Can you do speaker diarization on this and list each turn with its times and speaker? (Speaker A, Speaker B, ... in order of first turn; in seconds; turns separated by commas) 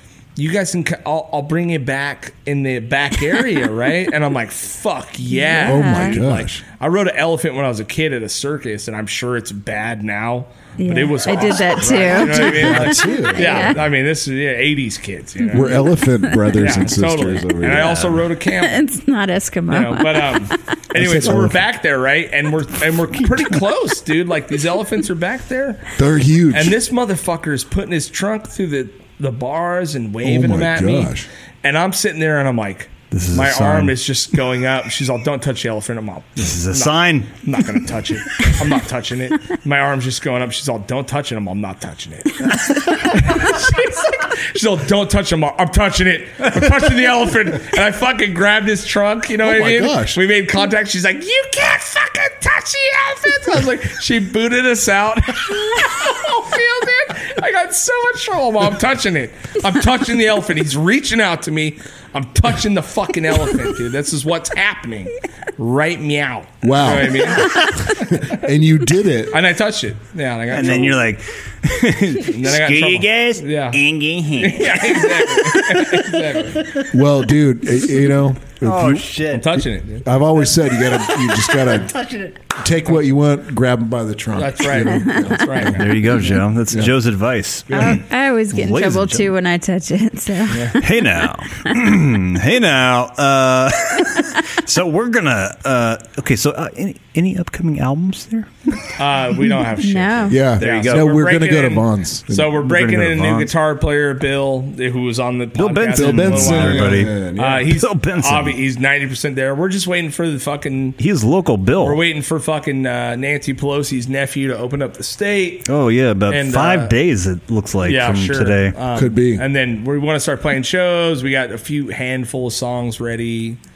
Speaker A: 0.3-15.9, Speaker B: 5.3-6.2, Speaker C: 5.6-6.6, Speaker B: 10.8-13.8, Speaker C: 12.1-13.8, Speaker C: 15.5-18.1, Speaker B: 15.6-16.6, Speaker A: 16.5-18.8, Speaker D: 17.6-18.3, Speaker B: 18.6-20.8, Speaker A: 19.7-26.0, Speaker C: 20.9-21.6, Speaker C: 25.9-26.8, Speaker A: 26.5-68.4, Speaker C: 30.2-31.3, Speaker D: 33.1-34.0, Speaker D: 36.4-37.8, Speaker C: 49.4-50.2, Speaker C: 66.6-69.4, Speaker A: 69.3-71.0, Speaker D: 70.5-76.9, Speaker A: 72.2-73.8, Speaker A: 74.4-76.7, Speaker C: 76.9-86.0, Speaker D: 78.6-79.5, Speaker A: 79.3-80.0, Speaker D: 80.8-82.4, Speaker A: 84.3-86.3, Speaker D: 85.7-89.3, Speaker C: 86.7-87.0, Speaker C: 87.7-88.0, Speaker B: 87.7-91.2, Speaker A: 90.5-90.8, Speaker D: 90.8-98.9, Speaker A: 98.9-111.0, Speaker B: 99.7-100.4, Speaker C: 100.3-102.6, Speaker D: 100.6-101.1, Speaker D: 102.5-103.5, Speaker D: 105.5-108.6, Speaker C: 105.9-107.7, Speaker D: 111.0-112.0, Speaker A: 111.8-115.7, Speaker D: 115.7-118.8, Speaker A: 116.3-116.9, Speaker A: 117.8-123.6, Speaker C: 118.9-119.4